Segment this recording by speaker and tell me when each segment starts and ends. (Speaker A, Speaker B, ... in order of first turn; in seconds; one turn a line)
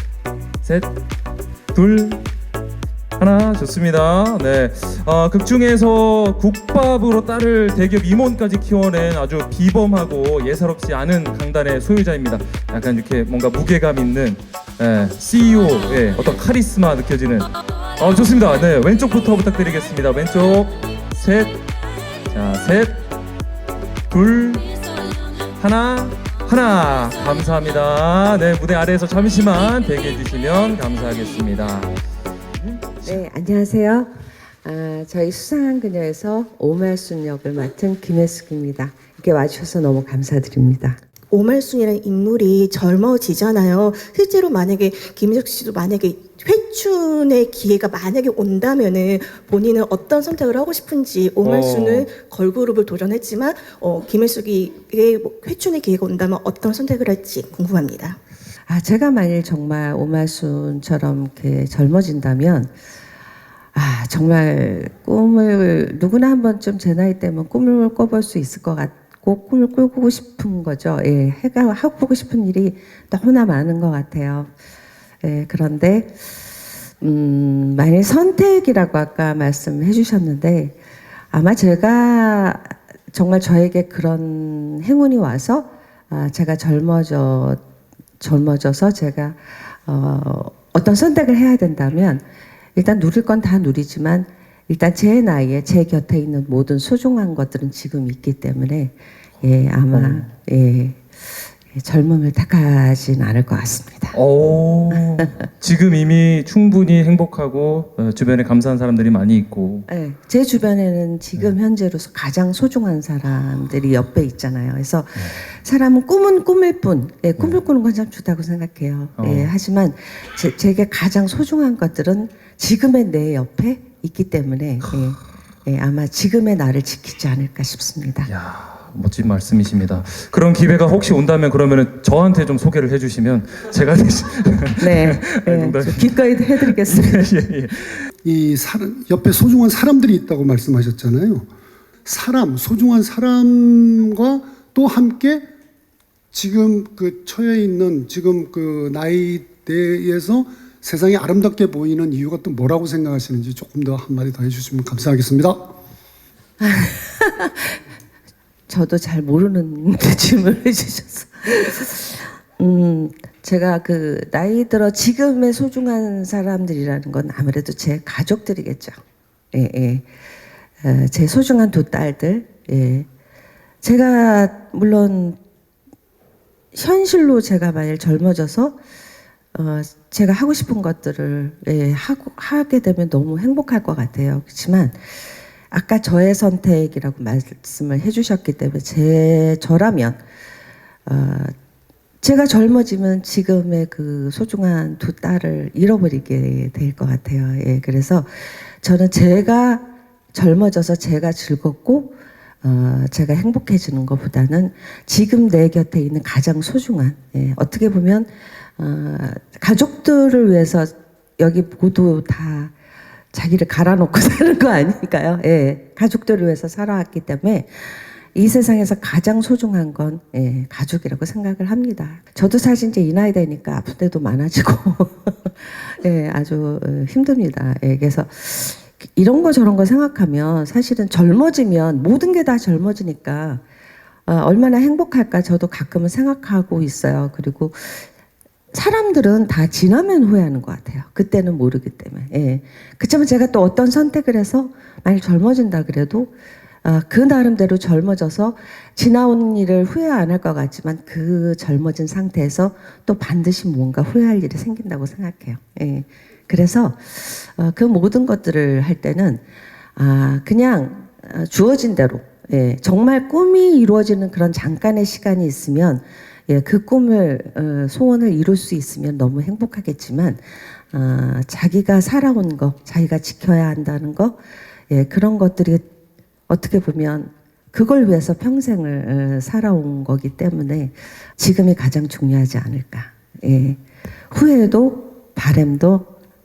Speaker A: 0.6-0.9
Speaker A: 1.7-2.2
Speaker A: 3.2-21.6
Speaker A: 22.3-23.0
Speaker A: 24.1-24.7
Speaker A: 25.6-31.9
Speaker B: 32.6-34.1
Speaker B: 34.6-41.0
Speaker C: 41.3-58.2
Speaker A: 51.4-52.1
Speaker B: 58.7-62.7
Speaker B: 63.7-74.5
Speaker B: 75.2-76.4
Speaker B: 77.0-80.8
Speaker B: 81.3-87.6
Speaker B: 88.2-92.2
Speaker B: 92.8-104.2
Speaker A: 99.9-100.2
Speaker A: 104.1-109.9
Speaker B: 109.9-128.3
Speaker A: 119.2-119.5
Speaker A: 128.3-138.1
Speaker B: 134.8-137.4
Speaker D: 138.2-141.5
Speaker D: 142.0-145.4
Speaker D: 146.3-155.8
Speaker B: 156.6-157.8
Speaker B: 158.7-169.0
Speaker B: 169.5-170.1
Speaker B: 170.8-173.1
Speaker B: 173.8-175.4
Speaker B: 176.7-178.8
Speaker B: 179.5-190.2
Speaker B: 191.1-191.5
Speaker B: 192.2-212.7
Speaker B: 213.3-233.6
Speaker B: 234.2-238.1
Speaker B: 238.7-246.3
Speaker B: 246.8-259.4
Speaker B: 259.9-274.4
Speaker B: 274.9-275.9
Speaker B: 276.5-286.1